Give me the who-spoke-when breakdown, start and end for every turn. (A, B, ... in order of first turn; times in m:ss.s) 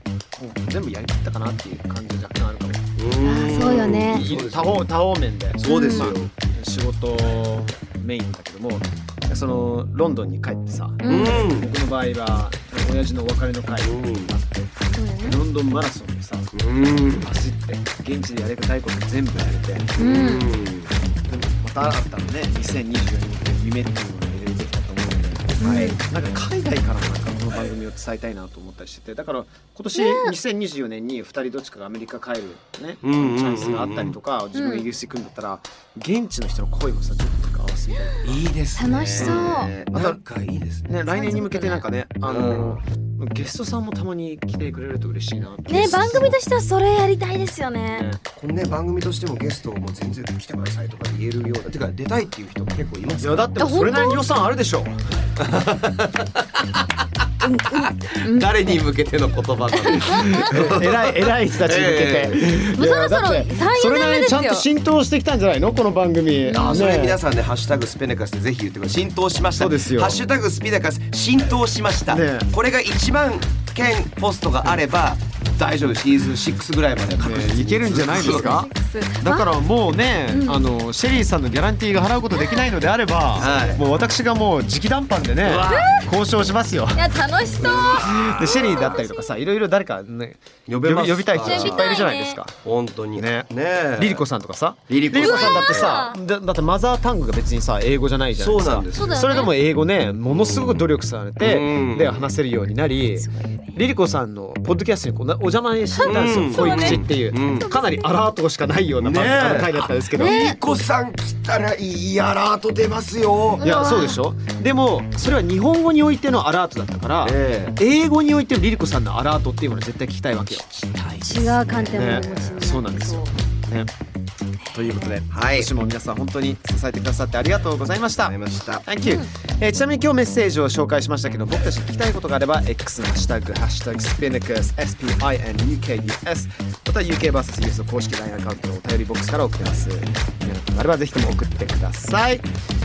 0:00.4-0:16.5 A
0:03.0-0:04.9 B
0:03.2-0:04.2 C
0:05.6-0:06.3 B
0:05.6-0:06.1 C
0:11.0-0:11.5 C
0:11.0-0:11.7 B
0:13.8-0:14.3 B
0:15.0-0:15.4 C
0:16.5-0:17.3 B
0:17.2-0:20.4 A
0:20.0-0:20.9 B
0:20.0-0:20.5 C
0:21.3-0:38.4 A
0:25.6-0:26.0 B
0:25.6-0:26.0 C
0:29.9-0:30.3 C
0:33.0-0:34.1 B
0:34.5-0:34.8 C
0:38.2-0:41.0 B
0:38.8-0:39.7 C
0:39.2-0:40.2 A
0:40.8-0:46.4 A
0:41.1-0:41.8 C
0:42.2-0:42.8 B
0:45.7-0:48.1 C
0:45.7-0:46.4 B
0:47.9-0:48.2 A
0:48.3-0:53.5 B
0:53.2-0:55.0 A
0:53.6-0:54.3 C
0:55.4-0:56.8 B
0:57.4-0:58.6 C
0:57.4-1:02.5 B
0:59.8-1:00.5 C
1:00.2-1:07.2 A
1:02.7-1:04.6 C
1:06.4-1:06.9 C
1:06.5-1:18.5 B
1:09.6-1:10.3 A
1:12.1-1:12.5 A
1:17.2-1:18.7 A
1:18.1-1:19.6 C
1:19.2-1:27.0 A
1:20.3-1:20.6 C
1:22.3-1:22.7 C
1:23.4-1:23.8 B
1:23.4-1:23.7 C
1:25.4-1:26.1 B
1:25.7-1:26.1 C
1:26.9-1:29.3 C
1:27.6-1:29.0 B
1:27.8-1:32.5 A
1:30.7-1:34.2 B
1:31.3-1:32.4 C
1:33.1-1:50.5 A
1:34.9-1:35.9 B
1:35.2-1:36.2 C
1:38.4-1:39.4 B
1:38.9-1:39.5 C
1:40.2-1:40.9 B
1:41.4-1:42.3 B
1:43.2-1:43.8 C
1:45.9-1:48.2 C
1:46.0-1:47.7 B
1:49.0-1:53.7 B
1:50.2-1:50.8 C
1:53.6-2:00.7 A
1:53.6-1:54.2 C
1:57.2-1:57.8 B
2:00.5-2:02.5 B
2:01.2-2:03.9 A
2:01.2-2:03.3 C
2:04.6-2:05.1 C
2:04.7-2:22.5 A
2:05.3-2:05.7 B
2:08.2-2:08.8 B
2:09.0-2:09.3 C